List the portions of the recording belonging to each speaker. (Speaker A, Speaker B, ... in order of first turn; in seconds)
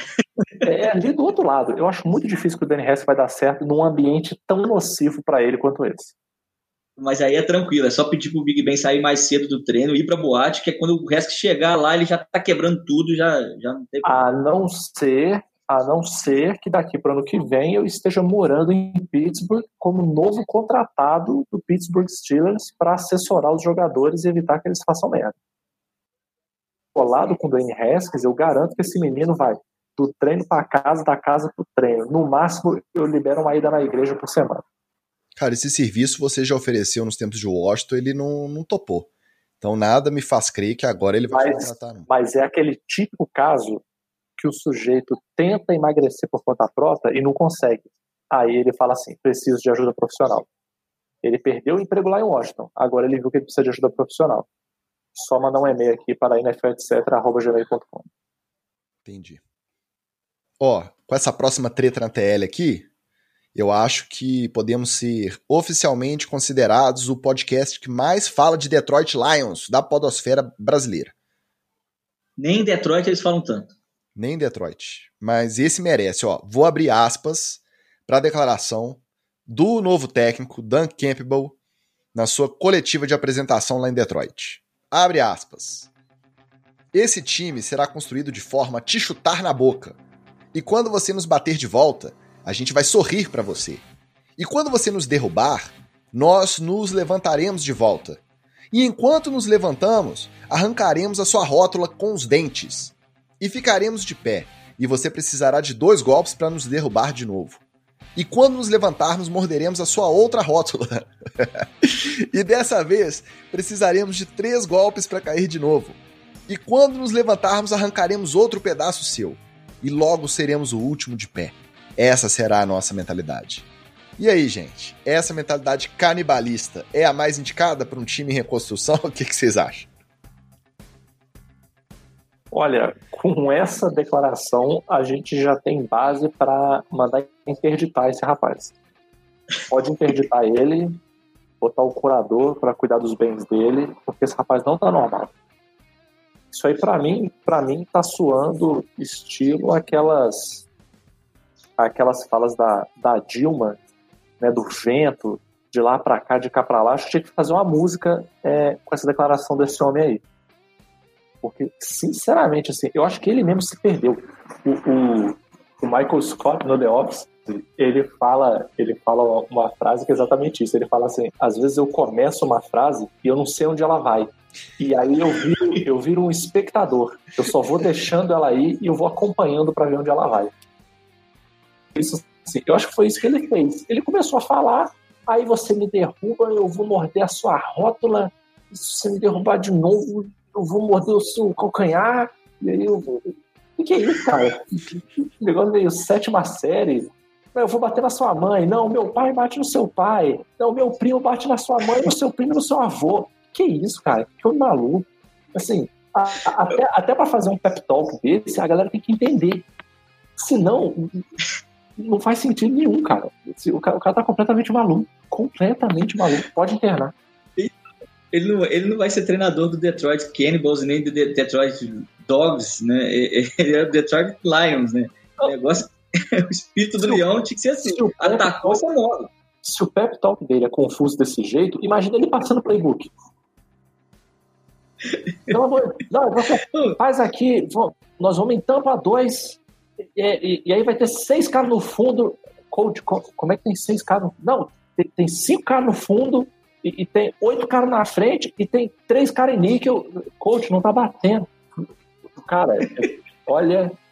Speaker A: 0.6-6.1, 14.0-25.4, 26.9-34.6, 41.3-43.8, 44.4-50.5, 51.2-54.5, 55.1-58.1, 132.5-138.8, 139.7-141.0, 141.6-145.3, 146.5-150.7, 151.8-153.8, 154.4-160.2, 161.4-180.5, 181.9-209.7, 210.4-211.2, 212.0-217.1, 227.8-228.8, 229.6-233.1, 235.5-239.6, 240.2-251.5, 252.3-254.0
Speaker B: 7.0-14.3, 72.4-73.7, 218.3-229.3, 235.1-235.6
Speaker C: 35.4-39.1, 39.6-42.1, 59.0-59.4, 60.6-62.9, 63.5-71.1, 74.2-81.6, 82.1-85.9, 86.9-90.0, 90.5-93.8, 94.4-98.2, 98.7-107.6, 108.2-123.7, 124.2-129.9